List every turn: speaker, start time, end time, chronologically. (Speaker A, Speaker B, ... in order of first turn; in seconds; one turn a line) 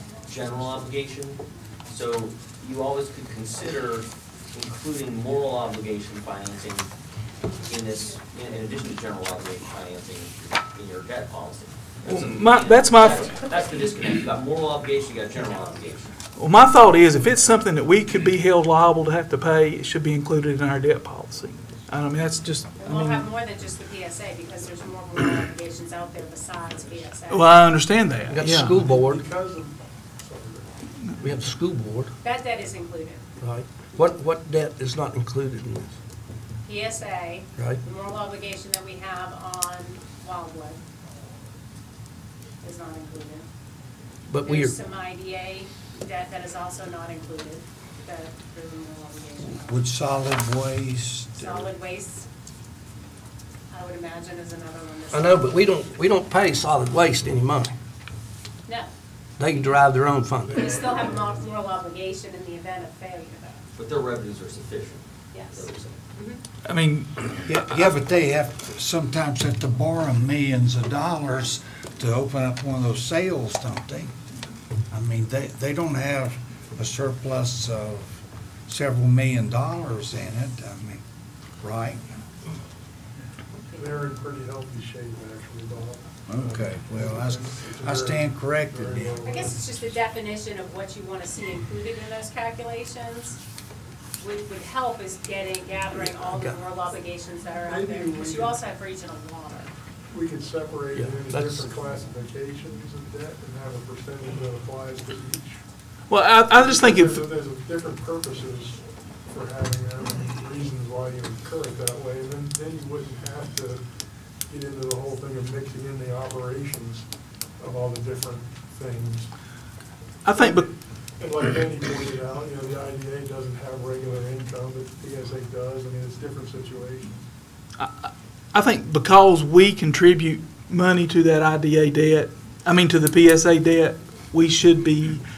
Speaker A: 0.2-6.9
Speaker B: 7.5-8.2
Speaker A: 7.7-16.1
Speaker C: 12.0-13.4
Speaker B: 15.3-15.9
Speaker C: 16.4-23.2
Speaker B: 22.8-27.6
Speaker C: 27.3-28.8
Speaker D: 28.3-29.2
Speaker E: 28.7-30.7
Speaker D: 31.2-32.1
Speaker B: 32.2-33.2
Speaker D: 33.4-35.9
Speaker B: 36.6-40.8
Speaker D: 37.5-37.8
Speaker B: 42.6-43.5
Speaker D: 44.3-44.8
Speaker B: 44.4-49.8
Speaker F: 49.5-51.7
Speaker B: 51.4-52.3
Speaker B: 53.7-55.6
Speaker D: 55.1-57.8
Speaker D: 59.4-60.5
Speaker E: 60.4-61.4
Speaker B: 60.5-63.6
Speaker A: 63.8-66.0
Speaker B: 65.3-66.4
Speaker C: 66.6-67.3
Speaker F: 67.4-74.2
Speaker F: 74.9-81.0
Speaker F: 81.6-82.2
Speaker B: 83.7-84.0
Speaker E: 83.8-89.7
Speaker F: 86.3-89.2
Speaker B: 89.2-93.4
Speaker B: 94.2-99.7
Speaker D: 95.9-96.6
Speaker E: 97.6-98.6
Speaker E: 100.1-105.6
Speaker D: 100.9-101.8
Speaker C: 106.1-107.2
Speaker E: 106.5-113.8
Speaker E: 114.5-117.1
Speaker E: 117.6-119.3
Speaker C: 120.2-120.7
Speaker E: 120.3-127.2
Speaker C: 127.8-135.2